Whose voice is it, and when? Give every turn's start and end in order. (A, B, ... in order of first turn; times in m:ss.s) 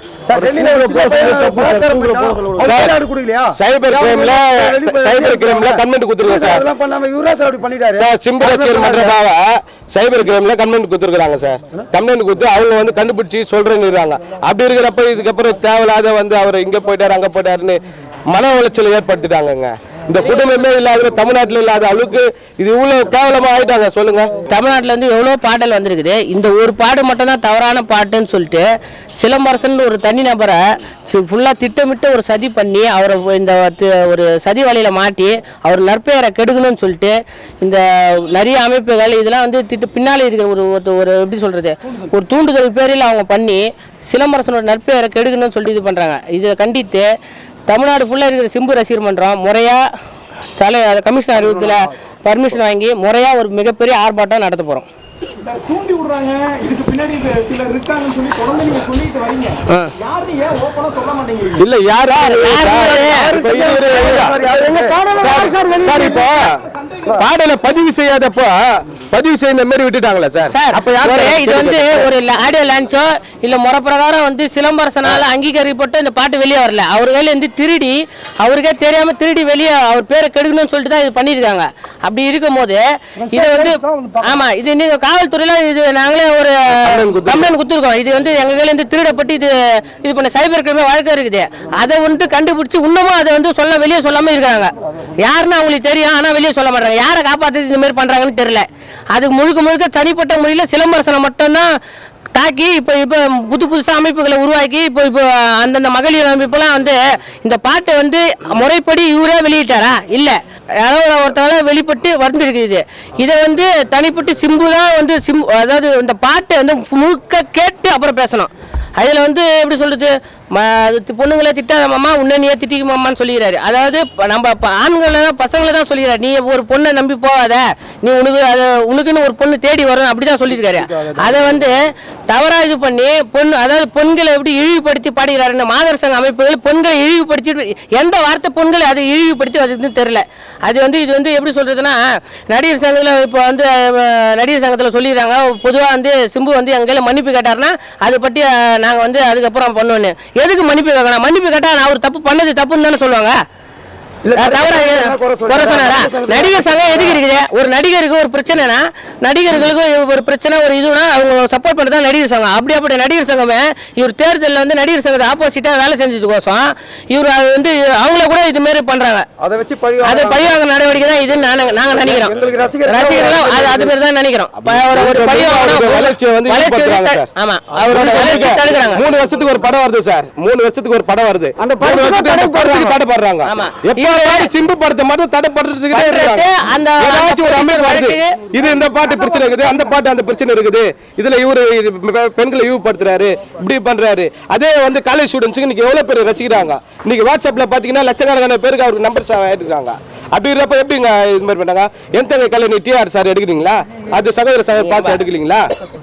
0:00.3-0:09.2 A
0:00.3-0:03.0 B
0:03.6-0:06.6 B
0:08.0-0:24.3 B
0:24.4-0:28.7 C
0:29.2-0:47.1 C
0:47.7-0:49.8 C
0:50.6-0:54.9 C
0:55.4-1:01.7 D
0:59.7-0:59.9 C
1:01.6-1:06.6 B
1:02.2-1:03.3 C
1:03.0-1:05.6 A
1:04.7-1:07.2 D
1:07.2-1:12.1 B
1:10.5-1:41.7 C
1:23.2-1:24.4 A
1:26.8-1:27.5 B
1:42.4-2:33.3 C
2:34.2-2:37.2 A
2:34.4-2:49.3 C
2:49.4-2:50.6 A
2:50.0-2:52.3 C
2:52.0-2:53.9 A
2:52.8-2:59.0 C
2:54.6-2:57.3 B
2:57.8-3:06.5 B
2:57.8-2:58.7 A
3:01.6-3:03.0 A
3:03.4-3:04.5 C
3:05.9-3:08.4 C
3:07.0-3:25.7 B
3:24.8-3:25.2 C